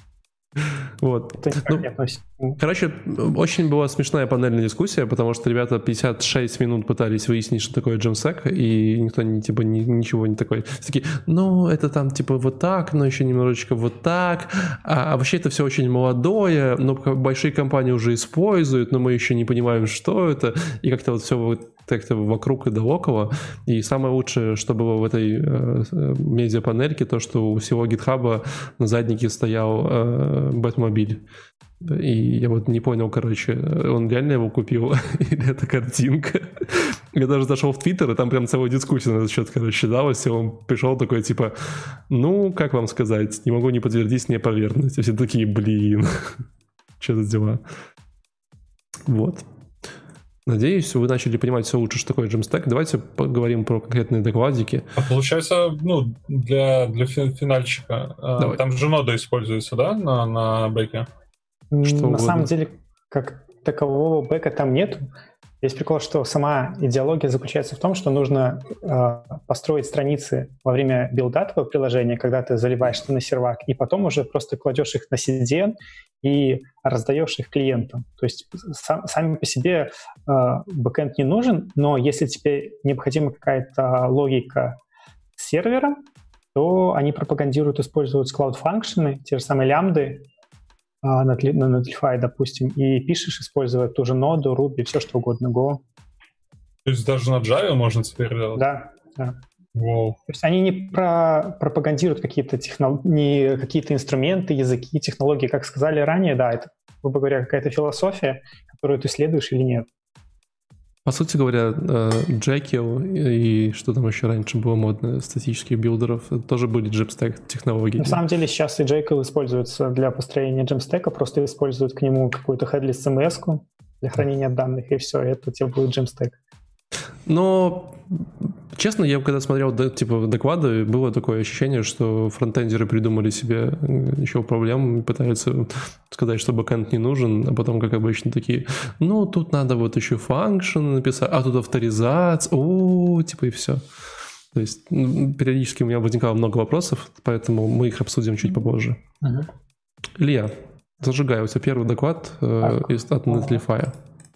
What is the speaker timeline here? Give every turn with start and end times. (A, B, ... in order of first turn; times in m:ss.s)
0:01.0-0:01.8 A
0:01.4-0:02.6 B
0:02.6-0:31.2 A
0:31.8-0:46.4 A
0:47.0-0:47.6 A
0:49.0-0:49.4 A
0:50.4-0:54.9 A
0:55.0-1:01.1 C
1:01.7-1:05.1 B
1:01.8-1:02.5 A
1:05.6-1:24.8 B
1:25.4-1:26.0 B
1:26.5-1:30.2 B
1:31.0-1:35.8 B
1:36.8-1:38.6 C
1:38.6-1:39.4 B
1:39.8-1:40.2 C
1:40.3-1:49.9 B
1:51.0-1:58.2 A
1:58.0-2:06.4 B
2:07.3-2:23.8 A
2:24.5-2:29.0 A
2:29.2-2:29.5 B
2:30.2-2:34.0 A
2:32.6-2:33.6 B